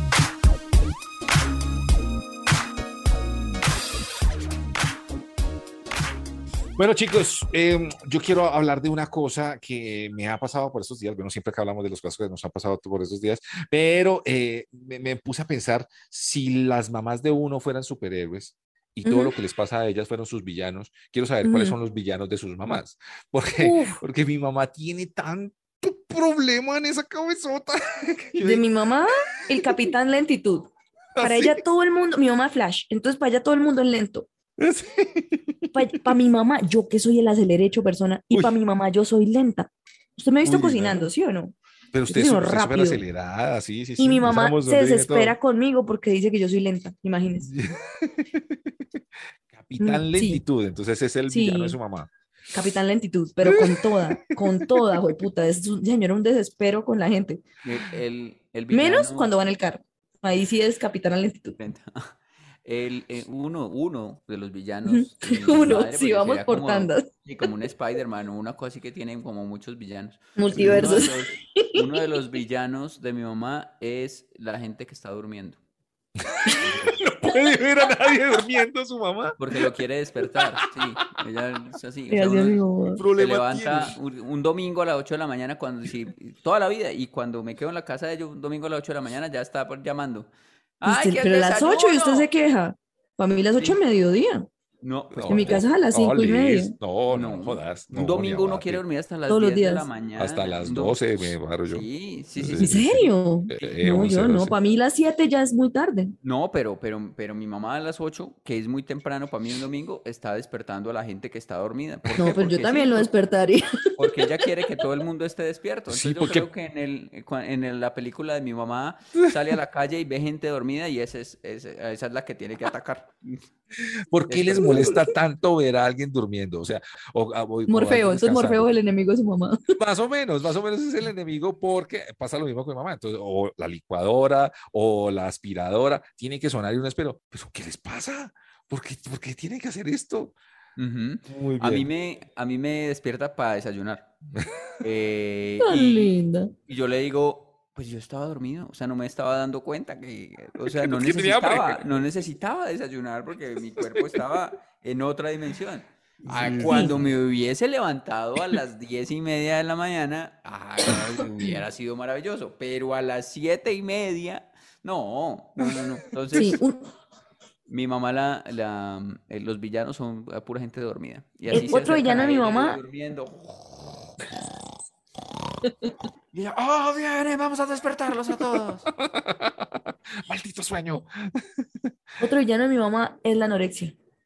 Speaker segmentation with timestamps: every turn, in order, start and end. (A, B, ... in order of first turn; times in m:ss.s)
0:06.8-0:28.6 A
0:19.0-0:19.3 B
0:21.4-0:21.8 B
0:23.6-0:24.0 B
0:28.4-0:34.3 B
0:29.5-0:29.9 A
0:31.1-0:31.6 A
0:34.6-0:36.1 A
0:35.7-0:41.5 B
0:38.3-0:38.6 A
0:40.4-0:41.0 A
0:41.9-0:45.4 A
0:42.1-0:43.0 B
0:44.0-0:47.5 B
0:47.4-0:49.0 A
0:49.5-0:52.1 A
0:49.8-0:50.4 B
0:51.3-0:51.8 B
0:52.5-0:57.4 B
0:53.4-0:55.1 A
0:57.6-0:59.3 C
0:58.7-1:01.6 B
1:01.6-1:15.6 C
1:04.9-1:07.1 B
1:10.4-1:11.9 B
1:10.5-1:11.1 A
1:16.2-1:19.4 A
1:19.4-1:22.6 C
1:22.1-1:23.0 B
1:23.0-1:24.0 A
1:23.1-1:30.3 C
1:30.8-1:32.3 C
1:30.8-1:34.5 B
1:34.8-1:35.6 C
1:35.1-1:38.8 A
1:35.3-1:36.7 B
1:37.1-1:41.0 C
1:39.3-1:39.9 B
1:40.2-1:42.8 A
1:41.6-1:43.1 C
1:42.6-1:46.1 B
1:43.5-1:44.5 A
1:46.2-1:53.1 C
1:52.2-1:54.2 B
1:54.0-2:03.4 C
1:55.9-1:56.5 A
2:03.8-2:08.7 A
2:04.3-2:04.9 C
2:04.6-2:05.0 B
2:07.7-2:09.8 B
2:09.8-2:20.3 A
2:20.8-2:24.1 C
2:21.3-2:21.9 A
2:24.8-2:46.6 C
2:25.6-2:26.5 B
2:30.6-2:31.8 A
2:33.8-2:34.2 A
2:36.2-2:37.0 A
2:36.6-2:36.9 B
2:46.3-2:46.9 B
2:47.7-2:53.6 C
2:51.5-2:52.8 B
2:56.3-2:58.9 C
2:58.3-3:01.6 A
3:02.2-3:03.9 B